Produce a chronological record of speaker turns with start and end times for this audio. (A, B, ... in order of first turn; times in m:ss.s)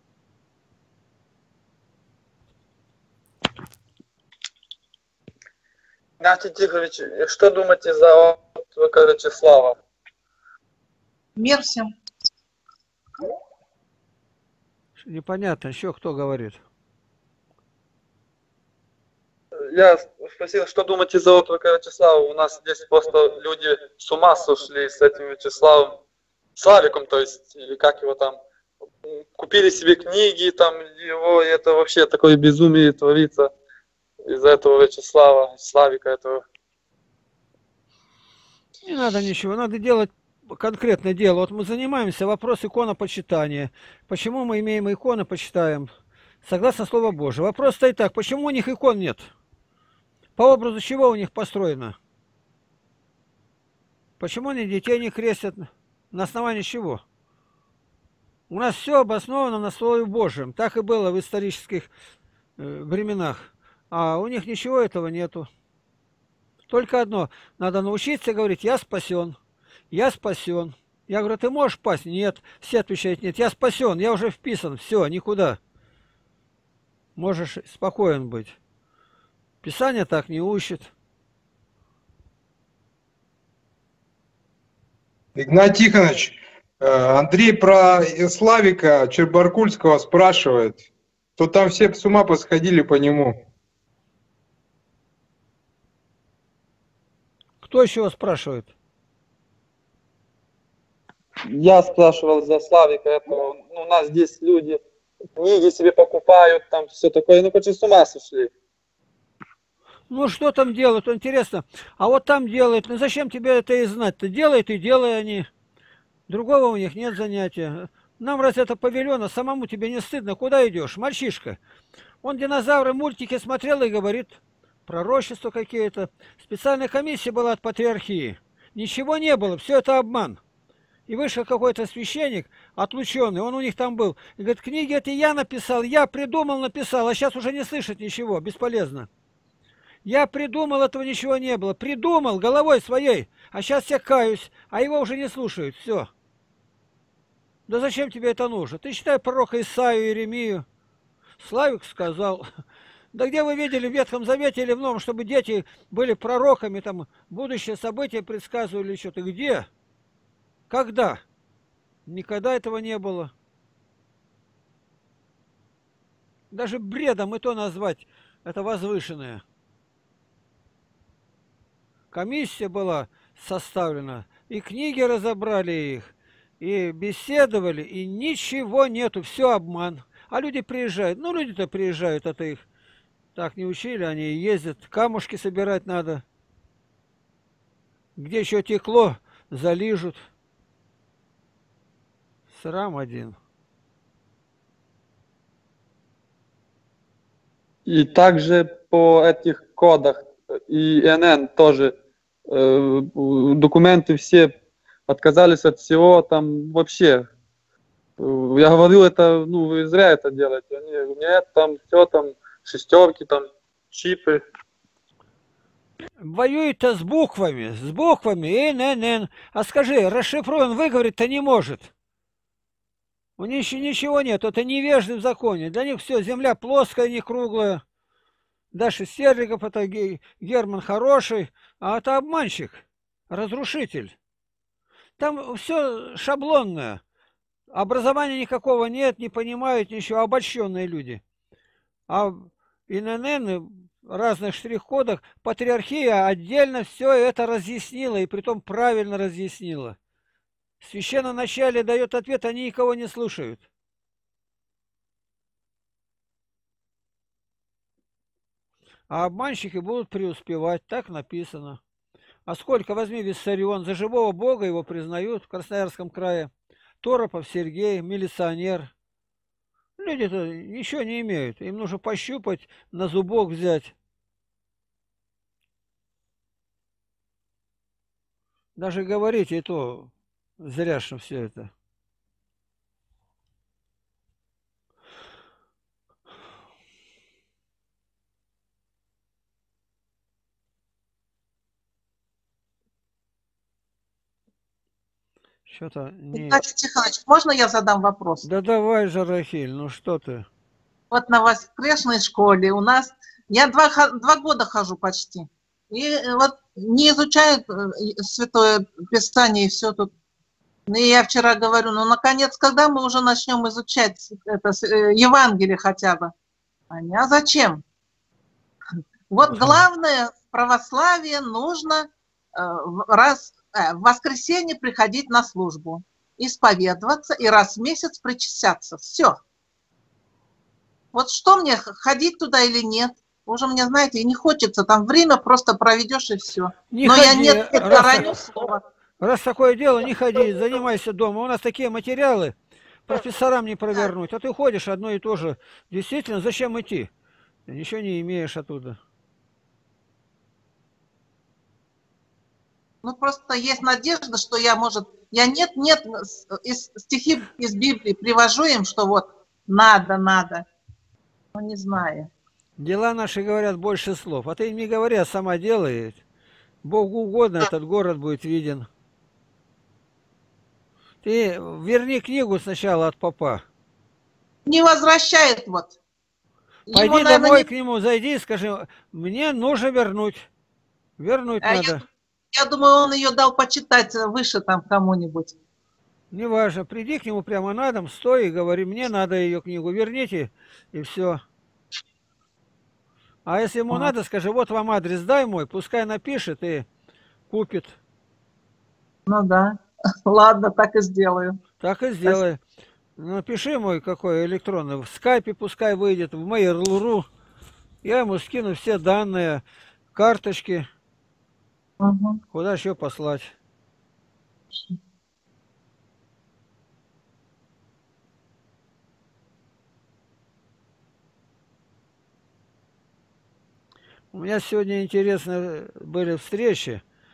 0:06.2-0:09.8 A
0:11.4-0:11.9 B
0:15.0-0:16.6 C
0:19.7-0:26.0 A
0:26.6-0:28.4 A
0:29.0-0:33.5 A
0:34.2-0:36.4 A
0:38.8-0:45.9 C
0:46.4-0:49.3 C
0:50.4-0:52.0 C
0:54.2-0:57.0 C
0:58.5-1:01.9 C
1:02.6-1:05.5 C
1:06.7-1:09.4 C
1:09.9-1:15.6 C
1:17.2-1:18.6 C
1:19.6-1:20.9 C
1:25.4-1:30.8 D
1:31.4-1:33.3 D
1:37.6-1:38.7 C
1:41.5-1:44.8 A
1:45.3-1:48.5 A
1:50.1-1:55.5 C
1:56.3-2:01.6 C
2:02.2-2:10.4 C
2:11.1-2:19.1 C
2:20.0-2:26.1 C
2:27.7-2:30.6 C
2:31.4-2:32.5 C
2:33.1-2:39.7 C
2:40.7-2:41.2 C
2:42.0-2:43.3 C
2:46.5-2:49.4 C
2:52.1-3:02.6 C
3:03.4-3:06.2 C
3:08.2-3:10.3 C
3:12.5-3:13.4 C
3:17.8-3:21.9 A
3:22.5-3:24.6 A
3:25.1-3:27.3 A
3:28.2-3:34.4 A
3:36.2-3:41.9 C
3:43.4-3:47.8 C
3:48.7-3:54.1 C
3:55.2-3:57.0 C
3:57.7-4:01.2 C
4:02.1-4:10.0 C
4:10.8-4:13.6 C
4:19.1-4:21.8 C
4:22.5-4:26.5 C
4:27.0-4:28.9 C
4:30.0-4:33.9 C
4:38.8-4:41.7 C
4:55.7-4:56.6 C
4:56.3-4:58.4 B
4:58.4-5:00.5 C
5:01.1-5:10.1 B
5:10.9-5:16.3 B
5:16.9-5:17.8 B
5:19.3-5:29.4 B
5:31.1-5:38.8 B
5:36.9-5:38.3 C
5:39.2-5:42.5 C
5:43.1-5:47.1 C
5:47.7-5:49.0 C
5:53.0-6:00.6 B
6:01.5-6:02.3 B
6:02.8-6:06.2 C
6:06.8-6:08.9 C
6:11.2-6:13.6 C
6:14.6-6:15.9 B
6:16.9-6:17.7 B
6:16.9-6:20.5 C
6:21.2-6:22.0 C
6:21.6-6:22.0 B
6:22.5-6:25.5 B
6:26.3-6:31.4 C
6:33.4-6:36.8 C
6:37.5-6:38.0 C
6:39.3-6:41.6 B
6:41.8-6:42.6 C
6:43.2-6:47.3 C
6:48.0-6:49.6 C
6:50.1-6:50.9 C
6:52.0-6:52.4 B
6:52.5-6:53.5 C
7:04.3-7:07.0 C